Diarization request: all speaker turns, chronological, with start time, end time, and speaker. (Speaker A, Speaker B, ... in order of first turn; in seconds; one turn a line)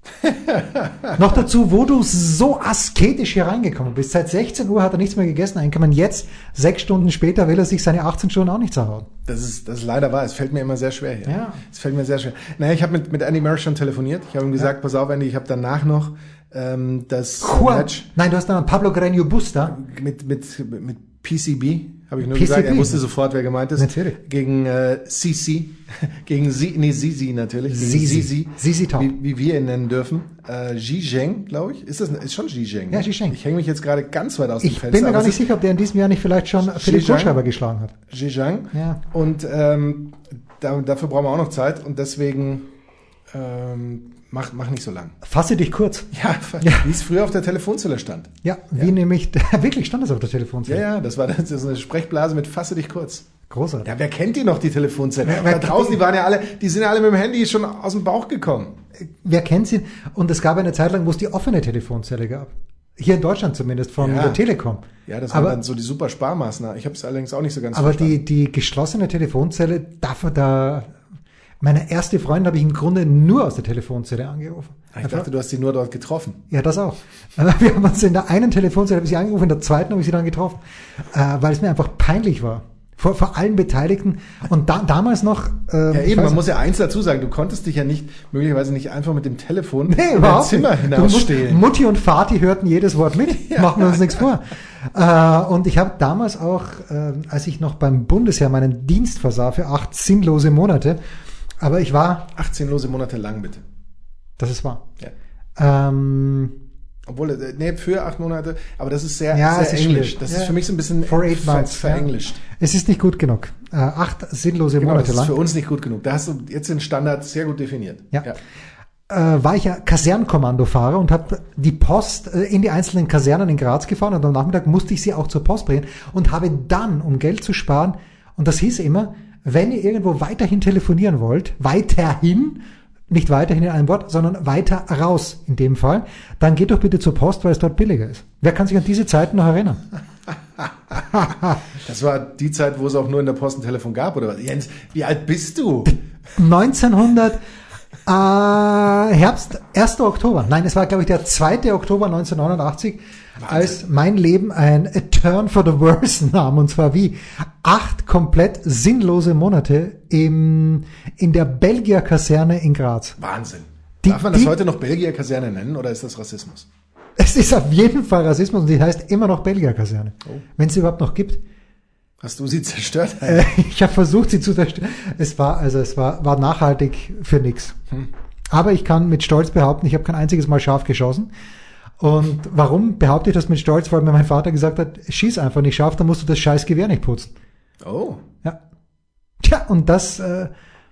Speaker A: 0.2-1.1
Speaker B: 1.2-9.1
Speaker A: 9.3-18.1
Speaker B: 11.3-11.6
Speaker B: 17.4-19.8
Speaker A: 19.7-35.4
Speaker B: 22.2-23.0
Speaker B: 23.8-24.2
Speaker B: 27.7-29.1
Speaker B: 32.9-33.4
Speaker B: 34.6-38.0
Speaker A: 36.6-37.4
Speaker A: 38.1-42.7
Speaker B: 38.7-39.0
Speaker A: 43.3-45.2
Speaker B: 45.2-46.1
Speaker A: 46.1-48.9
Speaker B: 46.6-46.9
Speaker B: 48.4-50.8
Speaker A: 50.7-53.3
Speaker B: 53.5-53.9
Speaker A: 53.8-58.8
Speaker B: 55.2-56.0
Speaker B: 59.2-65.6
Speaker A: 64.0-64.4
Speaker A: 65.1-68.2
Speaker B: 67.7-70.9
Speaker B: 71.6-75.3
Speaker A: 74.9-76.4
Speaker B: 76.5-80.6
Speaker B: 81.1-86.4
Speaker A: 85.9-91.7
Speaker B: 89.9-101.0
Speaker A: 93.4-94.3
Speaker B: 101.6-102.3
Speaker A: 102.3-103.6
Speaker B: 104.4-104.9
Speaker B: 105.6-106.5
Speaker A: 107.1-112.4
Speaker B: 109.3-115.3
Speaker A: 114.8-118.4
Speaker B: 119.1-139.8
Speaker B: 141.1-141.6
Speaker A: 141.7-146.0
Speaker B: 146.4-147.4
Speaker B: 148.1-163.2
Speaker A: 153.4-153.8
Speaker A: 163.2-166.7
Speaker B: 164.0-164.5
Speaker B: 167.2-171.4
Speaker A: 172.2-173.4
Speaker B: 173.2-177.8
Speaker B: 178.5-181.3
Speaker B: 182.0-187.3
Speaker A: 187.8-188.2
Speaker B: 189.4-190.5